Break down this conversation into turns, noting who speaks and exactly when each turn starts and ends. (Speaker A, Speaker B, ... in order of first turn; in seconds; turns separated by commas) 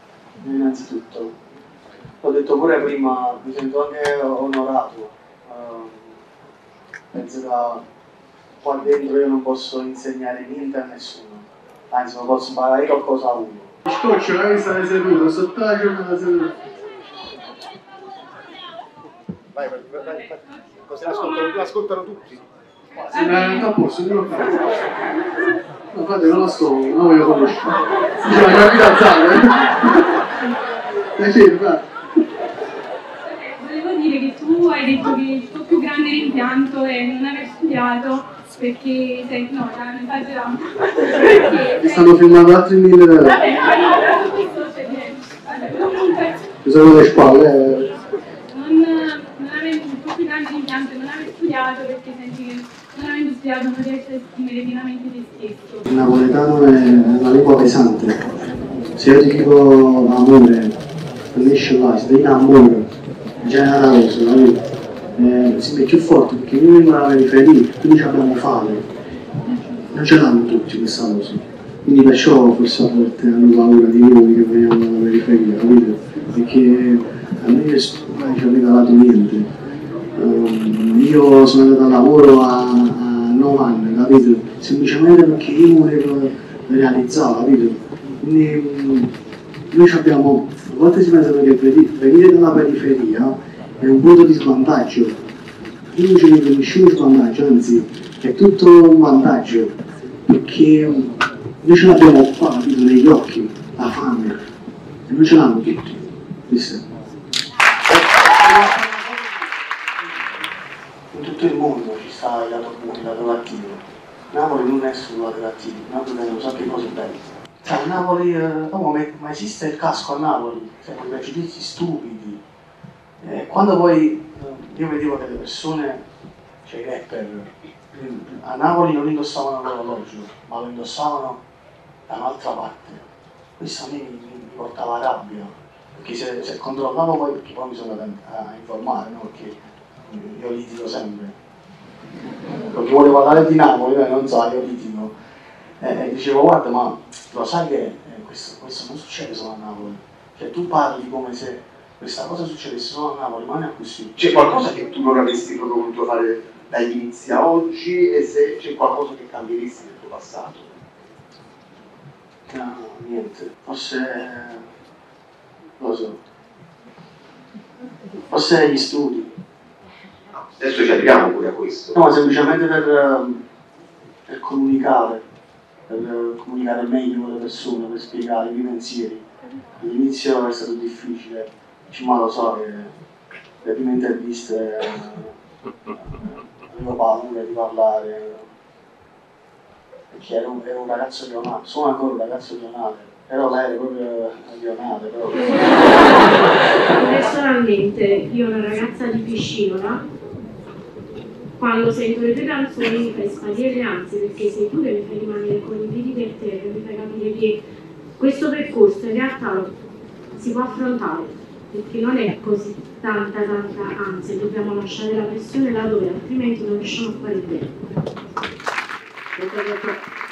Speaker A: 0.4-1.3, Speaker A: 2.2-6.2, Speaker A: 7.1-7.8, Speaker A: 8.6-16.5, Speaker B: 20.9-22.4, Speaker C: 21.0-21.4, Speaker A: 23.1-24.7, Speaker C: 23.1-23.7, Speaker A: 25.9-30.3, Speaker A: 31.1-31.9, Speaker C: 33.3-42.2, Speaker A: 41.6-43.5, Speaker C: 43.3-46.5, Speaker A: 46.6-48.0, Speaker C: 48.5-55.8, Speaker A: 55.9-58.2, Speaker A: 59.0-60.8, Speaker A: 61.3-62.9, Speaker A: 63.4-64.6, Speaker A: 65.2-68.8, Speaker A: 69.9-79.5, Speaker A: 80.1-89.1, Speaker A: 89.7-95.2, Speaker A: 95.9-99.7, Speaker A: 100.3-104.4, Speaker A: 105.1-106.8, Speaker A: 111.1-122.4, Speaker A: 123.2-126.0, Speaker A: 126.6-131.4, Speaker A: 132.1-133.0, Speaker A: 133.6-141.3, Speaker A: 142.7-145.1, Speaker A: 145.8-154.2, Speaker B: 154.2-160.8, Speaker A: 162.5-164.7, Speaker A: 165.8-166.2, Speaker A: 168.3-169.3, Speaker B: 170.3-171.9, Speaker A: 171.9-173.4, Speaker A: 174.3-175.2, Speaker A: 175.9-179.2, Speaker A: 179.8-182.9, Speaker A: 183.6-185.3, Speaker A: 186.0-188.5, Speaker A: 190.1-196.3, Speaker D: 196.9-200.0, Speaker D: 201.6-207.6, Speaker D: 208.2-209.7, Speaker D: 210.3-217.7, Speaker D: 219.4-220.0